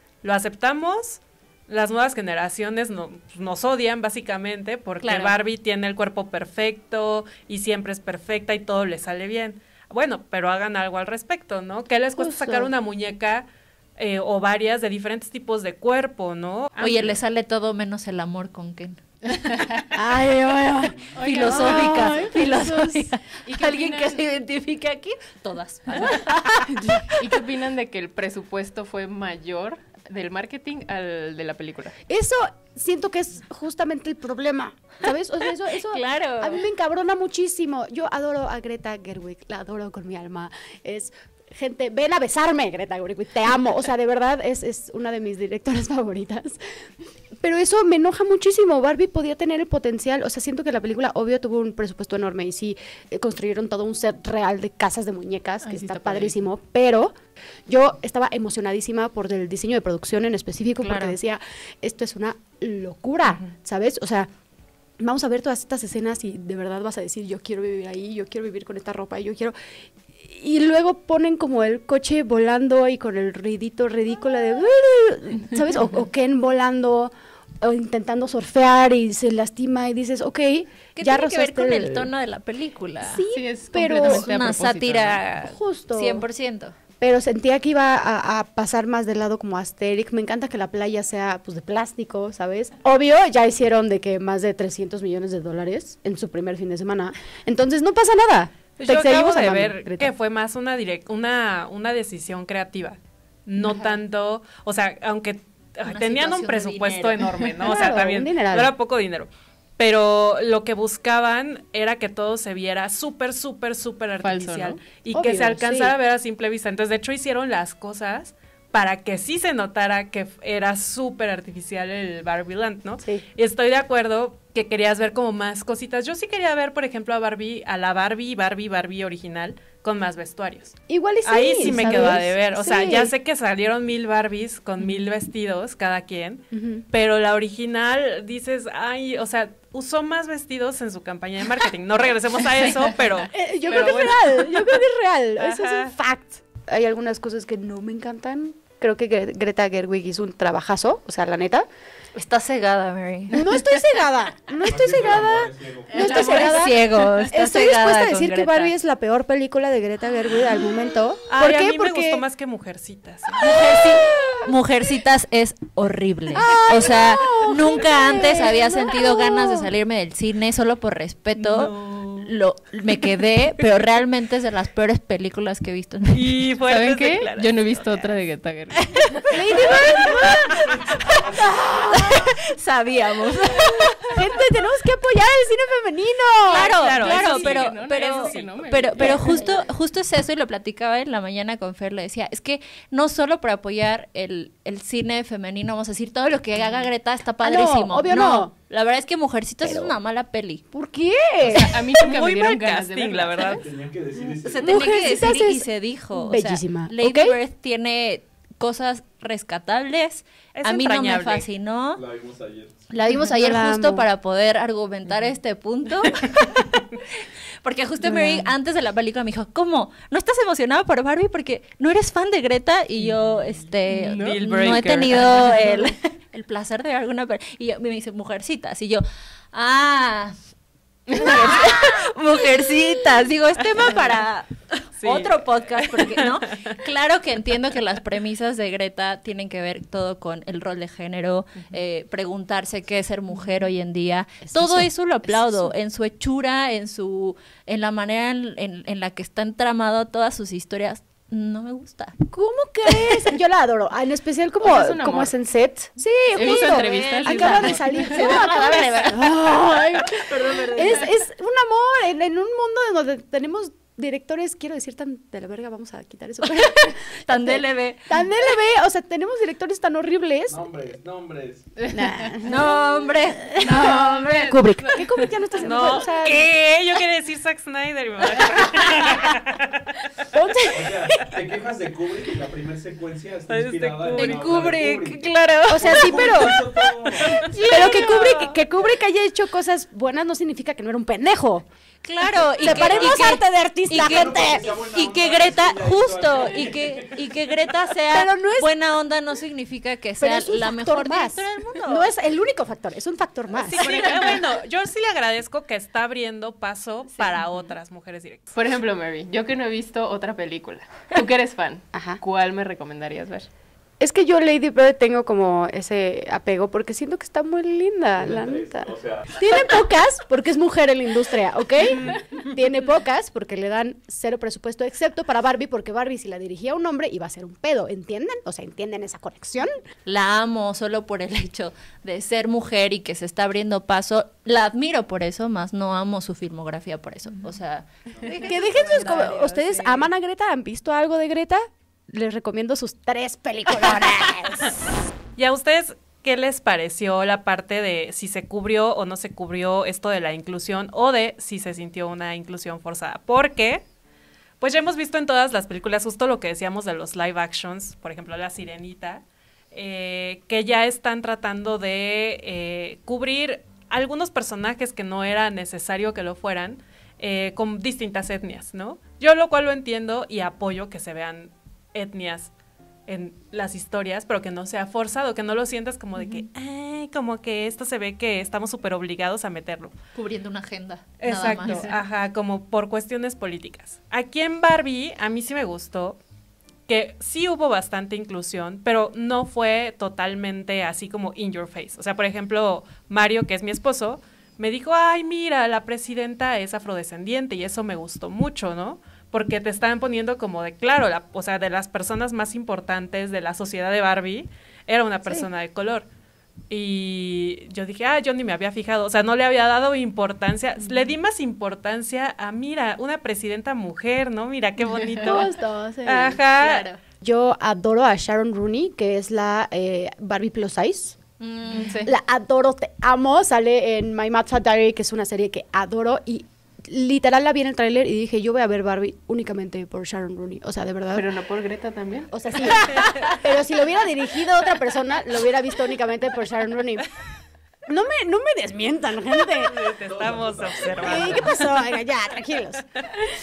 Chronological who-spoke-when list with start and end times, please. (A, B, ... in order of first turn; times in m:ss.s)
0:00.2-0:17.2 A
0:05.0-0:05.4 B
0:12.2-0:12.7 C
0:16.8-0:19.0 B
0:19.3-0:19.9 D
0:19.9-0:23.1 C
0:21.2-0:27.0 B
0:21.2-0:22.7 D
0:23.4-0:24.2 D
0:27.2-0:32.0 D
0:32.1-0:46.6 C
0:35.8-0:36.6 B
0:47.4-0:57.1 C
0:55.6-0:56.4 D
0:57.7-1:04.3 C
1:00.8-1:01.2 B
1:05.0-1:09.5 C
1:10.2-1:22.1 C
1:21.0-1:23.2 B
1:23.0-1:24.3 C
1:23.3-1:25.2 D
1:23.8-1:26.8 B
1:25.4-1:26.3 C
1:27.0-1:40.1 C
1:38.8-2:24.6 A
1:43.6-1:43.9 C
1:45.8-1:47.4 B
1:47.7-1:48.7 C
1:54.2-1:54.8 D
1:55.1-1:55.9 C
2:10.9-2:13.1 C
2:16.5-2:16.8 C
2:23.3-2:31.7 C
2:25.4-2:25.9 A
2:32.1-2:33.6 B
2:33.3-2:42.2 C
2:34.6-2:36.8 E
2:35.9-2:38.8 B
2:41.3-2:43.5 A
2:43.4-2:56.4 B
2:44.0-2:44.5 C
2:46.4-2:49.7 C
2:51.4-2:52.3 A
2:56.1-2:58.2 A
2:56.7-2:59.2 D
2:59.3-3:00.5 C
2:59.6-3:00.3 B
3:00.7-3:02.0 E
3:01.3-3:02.2 C
3:01.9-3:04.2 B
3:04.1-3:06.7 C
3:06.5-3:20.6 B
3:06.5-3:08.8 A
3:06.6-3:09.4 D
3:09.0-3:09.5 C
3:17.4-3:18.5 C
3:19.6-3:19.9 C
3:20.7-3:21.7 C
3:21.5-3:23.6 D
3:22.0-3:23.6 A
3:23.6-3:25.0 E
3:24.4-3:32.0 B
3:24.6-3:27.4 C
3:30.6-3:31.4 A
3:32.0-3:32.8 E
3:32.9-3:36.9 B
3:33.1-3:34.0 C
3:37.6-3:50.4 B
3:38.0-3:38.4 C
3:43.9-3:45.8 D
3:44.2-3:45.5 A
3:51.1-3:51.4 D
3:51.1-4:12.2 B
3:55.0-3:56.7 A
4:04.4-4:05.7 C
4:12.3-4:30.6 C
4:12.9-4:13.3 B
4:14.6-4:15.3 D
4:16.3-4:17.8 D
4:16.4-4:21.1 B
4:26.6-4:28.4 B
4:30.5-4:31.7 E
4:31.9-4:32.8 C
4:32.4-4:34.9 B
4:33.6-4:36.5 C
4:33.7-4:35.2 D
4:35.6-4:39.8 A
4:40.3-4:40.9 C
4:40.7-4:47.5 E
4:43.5-4:44.7 A
4:44.2-4:46.5 B
4:45.7-4:46.6 C
4:47.1-4:48.4 A
4:47.5-4:48.6 B
4:47.6-4:51.7 C
4:52.0-5:02.1 B
4:52.6-4:53.4 E
4:52.6-4:54.7 C
4:54.0-4:57.8 E
4:58.1-4:58.7 C
5:00.2-5:04.1 C
5:03.7-5:08.5 A
5:03.8-5:04.2 B
5:08.5-5:13.5 D
5:11.9-5:12.2 C
5:14.0-5:29.7 C
5:18.2-5:19.3 E
5:30.1-5:40.1 B
5:38.3-5:44.8 C
5:45.4-5:53.8 A
5:54.6-6:12.5 A
6:13.1-6:20.0 A
6:20.2-6:21.9 B
6:21.2-6:26.2 A
6:21.6-6:21.9 D
6:26.9-6:46.1 A
6:46.7-6:56.9 A
6:55.2-6:56.4 C
6:56.6-6:57.0 B
6:57.2-7:01.2 C
7:01.4-7:02.1 B
7:01.7-7:02.1 A
7:02.0-7:11.3 C
7:11.1-7:12.3 D
7:12.3-7:17.1 C
7:17.9-7:19.7 C
7:19.7-7:21.7 A
7:19.7-7:21.7 E
7:21.0-7:22.8 C